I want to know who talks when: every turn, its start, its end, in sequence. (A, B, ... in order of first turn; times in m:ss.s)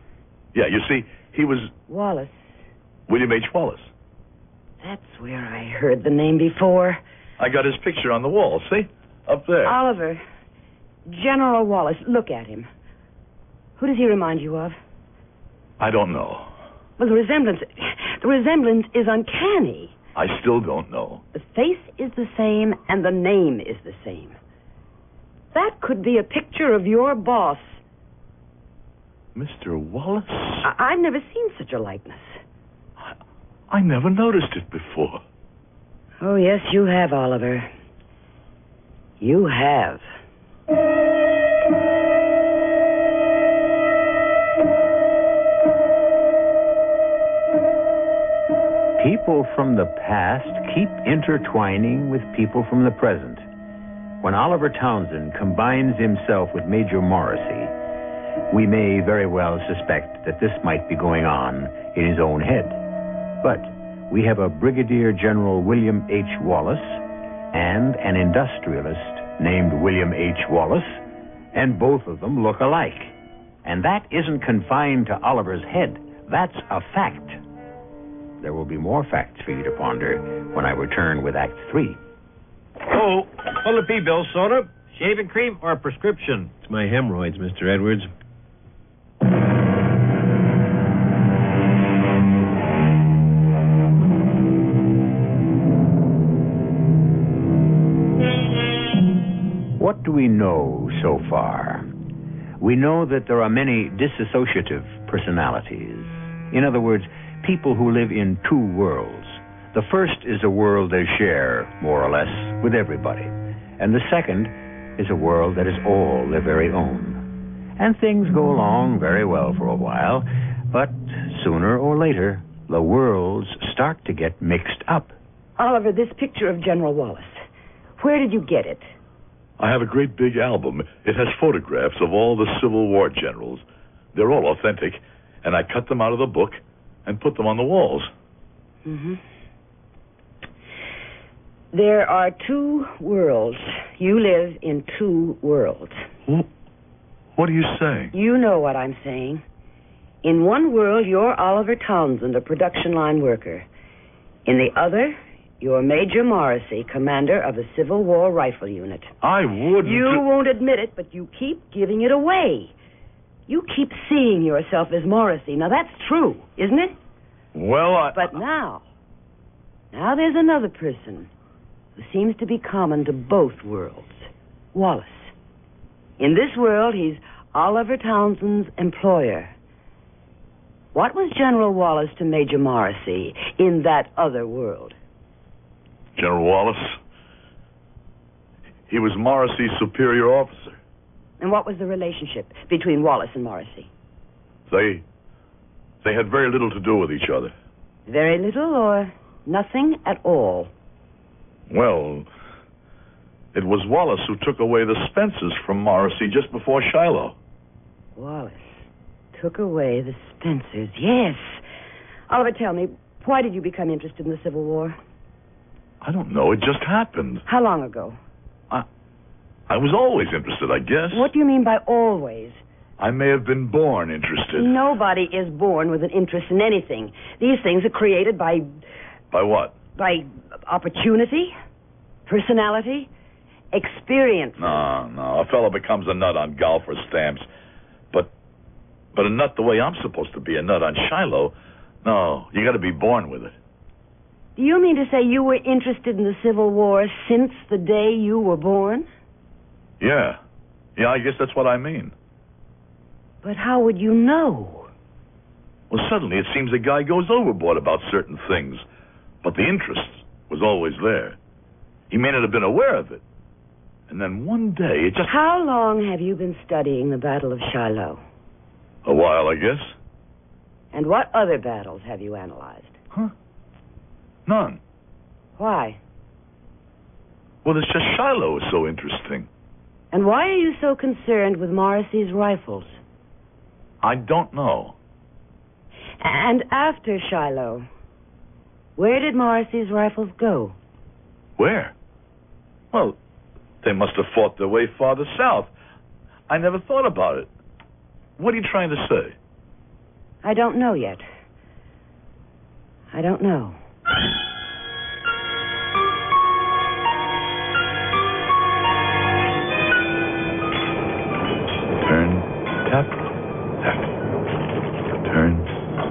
0:00.5-0:01.7 A
0:01.9-0:02.6 B
0:03.1-0:03.9 A
0:04.8-0:07.0 B
0:07.4-0:09.8 A
0:09.6-0:10.2 B
0:11.1-0:12.7 B
0:13.8-0:14.8 B
0:15.8-0:16.5 A
0:17.0-0:19.9 B
0:20.2-0:21.2 A
0:21.3-0:24.4 B
0:25.5-0:27.8 B
0:29.4-0:30.7 A
0:30.6-0:32.4 B
0:33.7-0:35.2 A
0:36.2-0:37.7 B
0:39.2-0:40.0 B
0:49.0-0:53.5 C
0:54.2-0:57.7 C
0:58.5-1:02.8 C
1:03.4-1:11.0 C
1:11.5-1:17.4 C
1:18.4-1:22.0 C
1:22.9-1:28.1 D
1:39.8-1:41.9 C
1:42.6-1:57.2 C
1:57.8-2:05.2 C
2:05.6-2:07.4 B
2:08.0-2:08.9 B
2:09.6-2:18.1 A
2:18.8-2:19.2 B
2:21.7-2:26.1 B
2:27.4-2:28.1 A
2:28.1-2:29.4 B
2:30.2-2:33.7 B
2:34.5-2:39.2 B
2:39.2-2:40.2 A
2:39.8-2:42.7 B
2:43.5-2:47.0 B
2:47.5-2:48.4 A
2:48.1-2:48.8 B
2:49.9-2:51.3 B
2:52.0-2:55.3 B
2:56.2-2:59.5 B
3:00.9-3:05.0 B
3:06.2-3:07.0 A
3:08.9-3:10.8 A
3:11.4-3:13.9 B
3:14.7-3:15.0 A
3:16.0-3:17.5 A
3:18.1-3:20.7 B
3:21.7-3:22.3 A
3:23.5-3:27.4 A
3:28.2-3:31.6 B
3:32.3-3:35.0 B
3:36.0-3:37.4 A
3:37.5-3:38.2 B
3:39.7-3:41.3 A
3:41.1-3:42.6 B
3:43.0-3:44.8 A
3:44.6-3:48.7 B
3:49.3-3:49.8 A
3:50.0-3:51.5 B
3:52.3-3:53.1 B
3:53.7-3:54.9 B
3:54.6-3:57.5 A
3:59.2-4:03.6 A
4:04.6-4:09.1 B
4:10.0-4:10.4 A
4:11.0-4:12.1 A
4:13.4-4:14.9 B
4:15.9-4:18.8 A
4:19.4-4:21.4 A
4:22.1-4:23.2 A
4:24.1-4:25.3 A
4:25.3-4:28.2 B
4:29.0-4:30.0 A
4:30.9-4:33.0 B
4:34.5-4:34.8 A
4:35.6-4:36.0 B
4:37.6-4:39.5 A
4:40.1-4:43.0 B
4:44.0-4:45.0 A
4:46.2-4:47.9 B
4:49.0-4:50.8 B
4:51.6-4:51.9 A
4:52.9-4:53.2 A
4:53.8-4:55.7 A
4:56.5-4:57.5 A
4:58.4-4:59.4 A
5:00.4-5:01.2 B
5:03.1-5:03.8 B
5:12.0-5:13.3 A
5:13.8-5:14.1 A
5:15.2-5:15.7 A